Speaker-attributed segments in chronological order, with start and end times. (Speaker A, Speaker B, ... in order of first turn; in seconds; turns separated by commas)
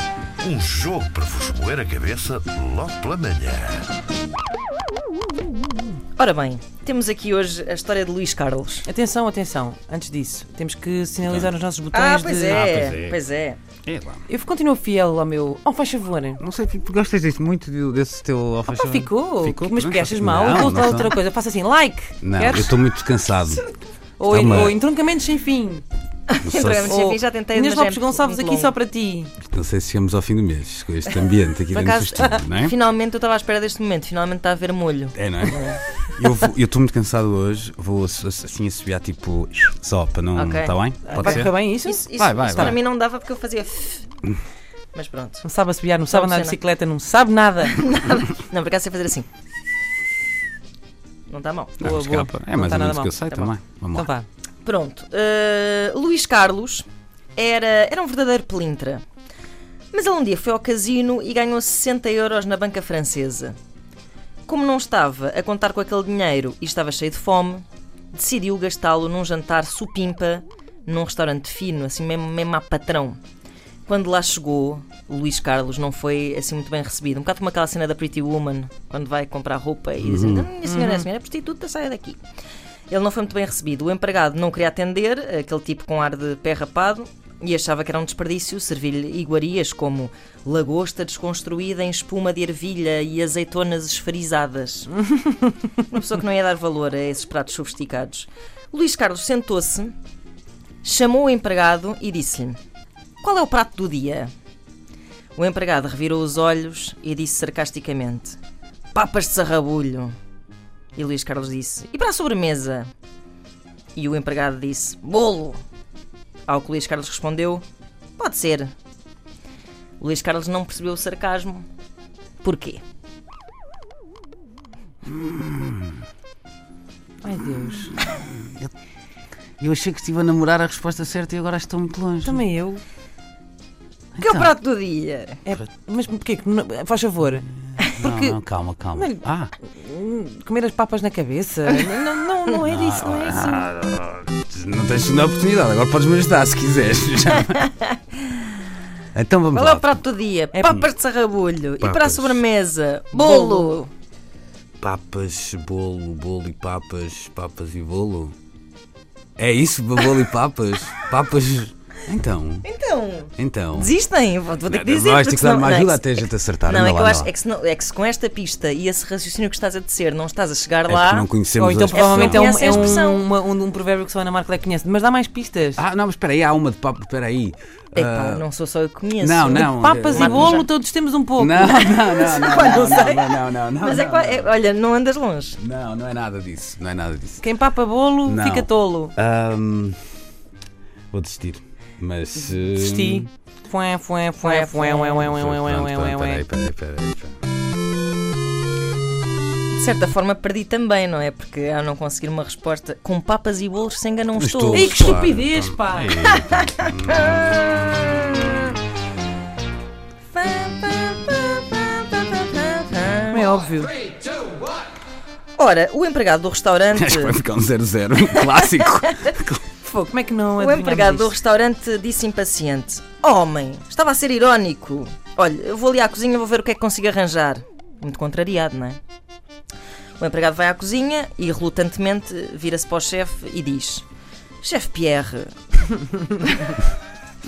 Speaker A: 0.4-3.9, Speaker B: 6.2-8.9, Speaker C: 8.9-12.7, Speaker D: 11.2-11.6, Speaker B: 11.9-13.6, Speaker D: 12.5-13.2, Speaker D: 13.8-14.2, Speaker C: 14.3-16.4, Speaker D: 16.4-21.2, Speaker C: 18.7-22.8, Speaker D: 22.2-23.6, Speaker C: 23.5-25.8, Speaker D: 24.3-24.8, Speaker B: 26.3-28.8, Speaker D: 26.4-27.1, Speaker C: 26.8-29.3, Speaker D: 29.4-32.7, Speaker B: 31.7-35.8, Speaker D: 35.1-41.5, Speaker B: 40.3-44.1, Speaker C: 41.1-42.8, Speaker D: 42.1-42.8, Speaker B: 44.9-45.5, Speaker C: 45.4-47.9, Speaker B: 46.1-46.6, Speaker B: 47.7-49.3, Speaker B: 51.3-51.9, Speaker D: 51.8-54.1, Speaker C: 51.8-53.2, Speaker C: 53.9-54.3, Speaker B: 54.6-59.0, Speaker B: 59.9-63.5, Speaker B: 64.5-73.2, Speaker B: 73.9-82.2, Speaker D: 80.0-80.5, Speaker C: 80.6-81.1, Speaker B: 82.9-95.0, Speaker C: 95.2-95.5, Speaker B: 95.8-100.0, Speaker B: 100.8-102.6, Speaker B: 103.2-104.3, Speaker B: 105.3-108.4, Speaker B: 108.9-110.2, Speaker B: 111.0-112.9, Speaker B: 114.0-115.6, Speaker B: 116.5-117.6, Speaker B: 118.2-118.7, Speaker B: 120.0-121.7, Speaker B: 122.4-122.8, Speaker D: 125.0-126.0, Speaker C: 127.2-128.0, Speaker D: 128.0-128.7, Speaker D: 129.6-132.4, Speaker C: 132.2-132.8, Speaker D: 134.2-134.5, Speaker B: 134.2-135.5, Speaker C: 135.5-138.4, Speaker D: 137.7-139.5, Speaker C: 138.9-143.7, Speaker D: 142.7-147.7, Speaker B: 147.4-148.4, Speaker D: 149.1-150.0, Speaker B: 149.5-153.9, Speaker C: 150.5-150.8, Speaker D: 151.8-152.4, Speaker C: 153.1-153.8, Speaker D: 154.8-158.3, Speaker D: 159.4-162.7, Speaker B: 162.6-171.3, Speaker D: 163.4-163.9, Speaker D: 164.6-167.3, Speaker D: 170.9-173.0, Speaker C: 171.6-175.8, Speaker B: 171.9-173.3, Speaker D: 175.8-178.4, Speaker B: 177.9-180.7, Speaker D: 179.2-180.6, Speaker C: 179.6-181.9, Speaker D: 181.4-184.5, Speaker B: 182.0-185.6, Speaker D: 185.6-187.4, Speaker C: 187.4-189.1, Speaker D: 188.2-190.0, Speaker D: 191.1-193.3, Speaker C: 192.4-196.4, Speaker B: 194.4-195.3, Speaker D: 195.2-197.3, Speaker B: 199.7-205.2, Speaker D: 204.4-207.7, Speaker C: 204.7-206.2, Speaker B: 206.2-208.8, Speaker B: 210.3-213.5, Speaker C: 213.3-213.9, Speaker B: 215.6-217.4, Speaker D: 216.9-219.6, Speaker B: 218.3-219.4, Speaker C: 219.8-221.3, Speaker B: 220.6-229.0, Speaker B: 230.2-234.1, Speaker B: 234.6-235.6, Speaker B: 236.3-236.8